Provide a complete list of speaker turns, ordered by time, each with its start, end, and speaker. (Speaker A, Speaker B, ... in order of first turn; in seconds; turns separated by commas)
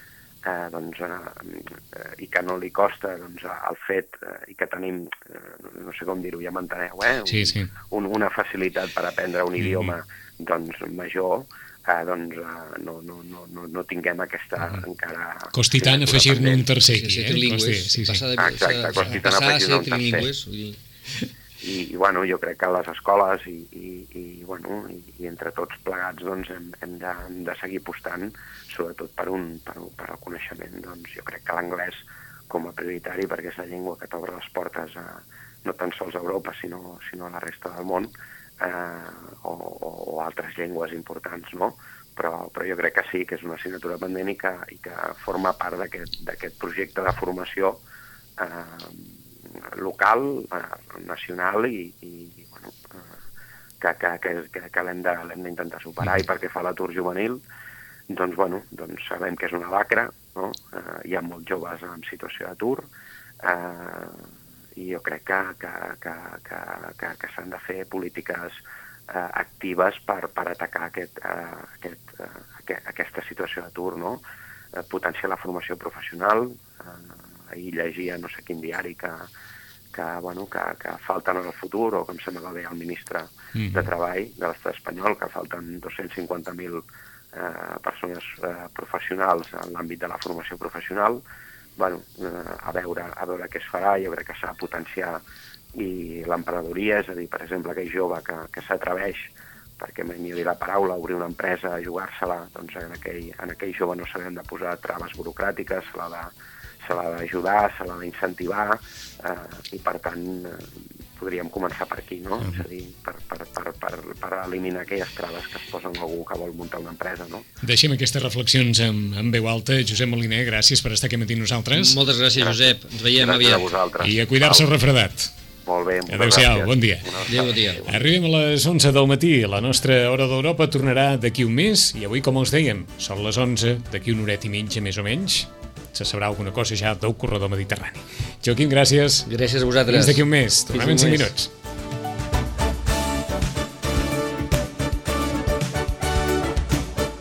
Speaker A: 0.4-16.7, Speaker B: 7.3-7.7, Speaker B: 15.5-18.2, Speaker C: 16.9-20.8, Speaker A: 18.4-20.3, Speaker A: 21.6-47.8, Speaker A: 48.4-49.2, Speaker A: 49.7-53.0, Speaker A: 53.8-57.4, Speaker A: 58.1-62.9, Speaker A: 63.4-74.2, Speaker A: 74.8-79.3, Speaker A: 79.9-91.2, Speaker B: 83.5-83.9, Speaker A: 91.8-95.2, Speaker A: 95.8-117.5, Speaker B: 117.6-122.0, Speaker C: 121.7-123.7, Speaker A: 122.4-124.7, Speaker B: 124.0-125.3, Speaker A: 125.7-128.1, Speaker B: 126.1-127.1, Speaker C: 127.3-127.8, Speaker B: 127.9-139.3, Speaker C: 139.2-141.3, Speaker B: 139.9-141.5